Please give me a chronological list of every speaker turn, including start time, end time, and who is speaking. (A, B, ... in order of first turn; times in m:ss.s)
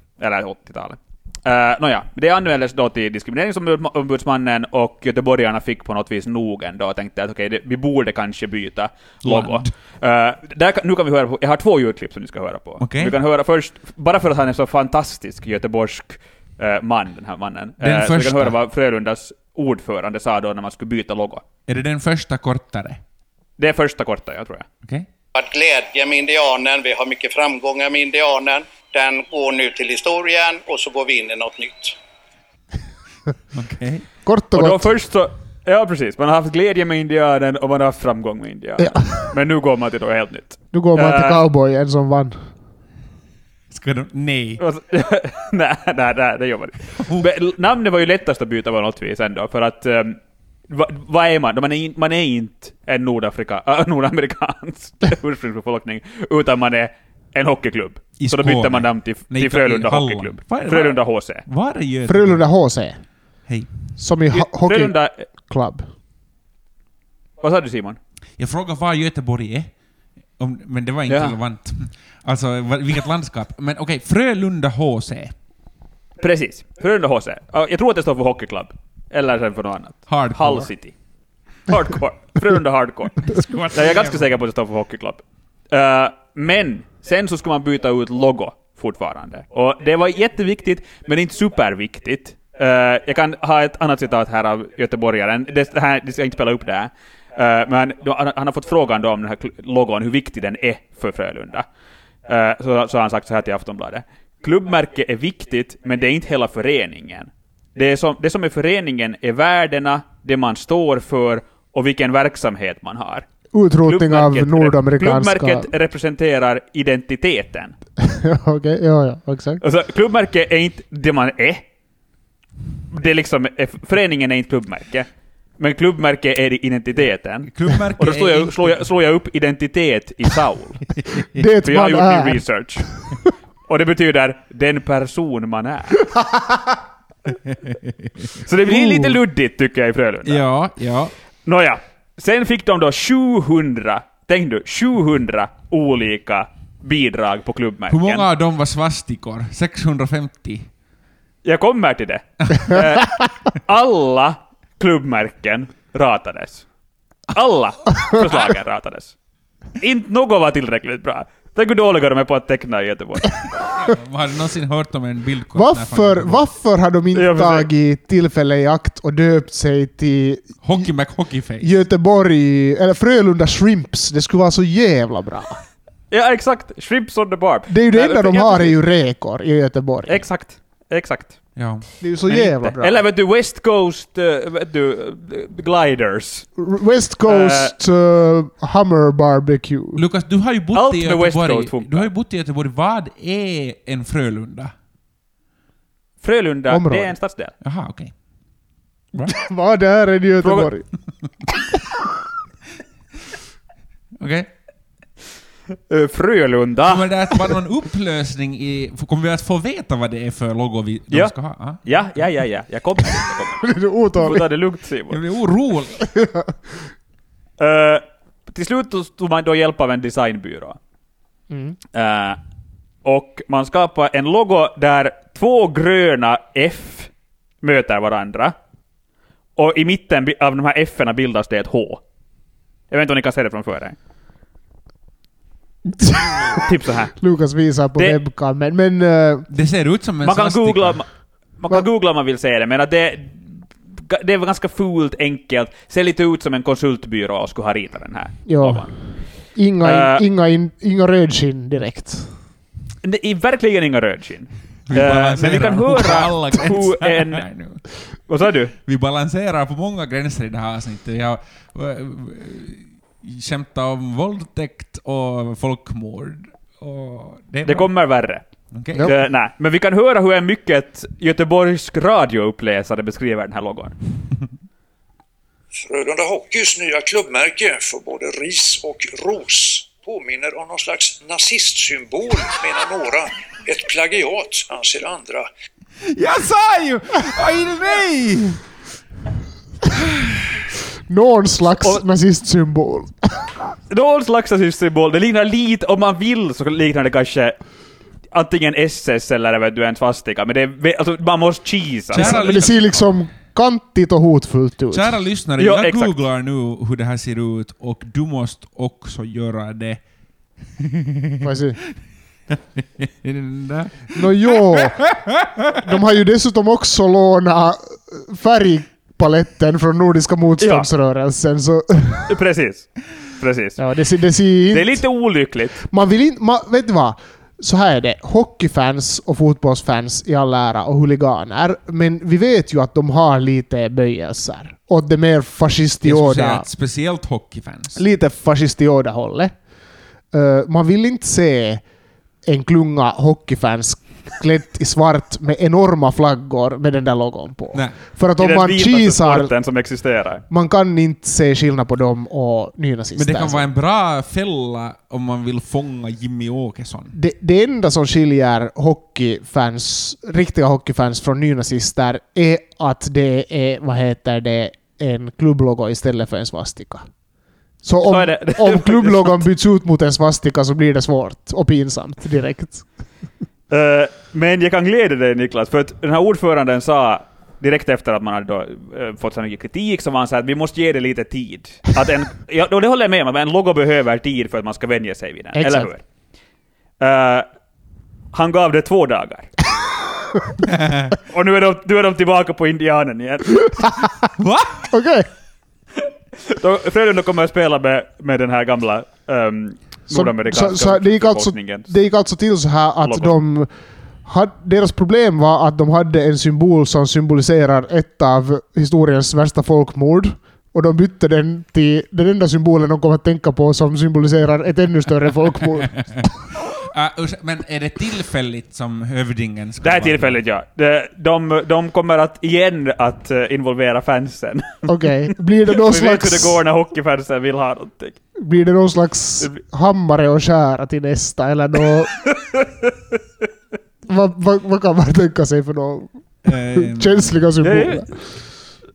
0:00.2-0:21.4 A
0:09.2-0:09.7 B
0:12.8-0:13.2 B
0:17.8-0:18.6 B
0:21.7-0:23.0 B
0:23.6-0:24.6 A
0:25.4-0:32.0 C
0:33.5-0:34.1 B
0:34.2-0:34.9 D
0:34.5-0:41.4 A
0:38.8-0:39.3 D
0:40.7-0:42.4 D
0:43.7-0:44.6 B
0:44.6-1:01.4 A
0:47.0-0:47.3 B
0:58.2-1:02.4 B
1:02.1-1:03.0 D
1:03.5-1:03.8 B
1:04.0-1:05.9 D
1:04.3-1:05.3 A
1:07.4-1:08.0 A
1:08.4-1:09.7 B
1:10.4-1:15.3 B
1:11.1-1:11.4 A
1:16.2-1:21.0 A
1:20.1-1:20.7 B
1:21.7-1:41.7 A
1:23.3-1:24.3 B
1:42.3-1:53.3 A
1:53.5-1:55.7 D
1:53.9-1:57.8 A
1:58.0-1:59.6 D
1:59.6-2:01.6 A
2:02.9-2:05.1 A
2:05.6-2:10.8 A
2:07.5-2:08.8 B
2:11.1-2:11.4 B
2:11.3-2:12.8 D
2:11.6-2:12.9 A
2:13.7-2:16.0 A
2:16.2-2:16.7 D
2:17.7-2:19.1 B
2:18.4-2:20.4 A
2:20.3-2:21.1 B
2:21.4-2:28.2 A
2:27.9-2:30.7 B
2:31.4-2:36.7 A
2:37.3-2:39.2 A
2:39.8-2:43.4 A
2:43.7-2:46.4 B
2:45.6-2:50.9 D
2:47.2-2:47.7 A
2:50.6-2:51.8 B
2:51.6-2:55.6 D
2:56.1-2:58.8 A
2:57.7-3:00.2 D
3:00.1-3:01.4 A
3:01.6-3:01.9 B
3:02.0-3:03.0 D
3:02.3-3:06.5 A
3:06.6-3:10.0 D
3:07.3-3:07.8 A
3:10.0-3:14.7 B
3:10.7-3:12.1 A
3:16.2-3:17.5 A
3:16.7-3:17.1 D
3:17.6-3:18.1 B
3:19.3-3:20.9 D
3:20.4-3:20.7 A
3:24.2-3:24.5 B
3:25.9-3:27.1 A
3:26.8-3:32.0 B
3:31.8-3:35.2 A
3:33.6-3:34.5 D
3:35.1-3:36.0 B
3:36.0-3:36.5 D
3:37.6-3:40.8 A
3:41.5-3:41.8 D
3:41.9-3:42.4 A
3:43.0-3:47.1 A
3:47.6-3:48.6 A
3:49.6-3:52.0 A
3:52.9-3:54.0 A
3:55.9-3:59.5 D
3:56.6-3:57.1 A
3:59.5-4:01.0 B
4:00.2-4:03.5 A
4:04.1-4:09.0 A
4:08.5-4:12.3 D
4:09.8-4:10.2 A
4:13.0-4:17.5 A
4:14.9-4:17.8 B
4:18.3-4:18.7 A
4:18.9-4:27.9 B
4:27.6-4:28.4 A
4:28.7-4:29.1 B
4:29.0-4:34.0 A
4:35.8-4:45.5 E
4:46.1-4:48.6 B
4:49.9-4:50.5 B
4:51.1-4:53.5 D
4:53.9-4:57.6 A
4:58.3-5:02.6 A
5:02.1-5:03.1 B
5:02.1-5:05.1 D
5:04.9-5:10.0 B
5:05.6-5:06.2 A
5:10.8-5:11.5 B
5:11.4-5:11.8 D
5:12.5-5:15.8 B
5:14.1-5:15.2 D
5:15.7-5:22.4 D
5:20.6-5:20.9 A
5:22.3-5:23.8 A
5:23.8-5:25.0 D
5:24.7-5:25.8 A
5:25.8-5:36.6 D
5:36.0-5:38.0 B
5:38.0-5:39.5 D
5:40.3-5:41.8 D
5:42.4-5:49.5 D
5:47.7-5:48.0 B
5:48.4-5:50.4 A
5:50.5-5:53.6 D
5:53.2-5:57.1 B
5:57.1-6:07.0 D
6:07.8-6:12.9 D
6:08.0-6:09.4 A
6:13.7-6:26.0 A
6:25.6-6:25.9 D
6:27.0-6:27.5 A
6:28.3-6:29.5 A
6:30.6-6:31.2 B
6:31.3-6:33.7 A
6:33.8-6:34.1 D
6:34.4-6:34.9 B
6:34.9-6:35.3 D
6:36.5-6:41.9 A
6:40.1-6:43.7 D
6:43.0-6:43.4 A
6:44.2-6:56.3 D
6:56.0-7:00.4 B
6:59.8-7:04.9 A
7:04.9-7:06.6 D
7:05.7-7:08.2 A
7:08.4-7:12.1 D
7:12.3-7:12.9 A
7:14.1-7:18.4 D
7:16.4-7:17.4 B
7:17.6-7:18.1 A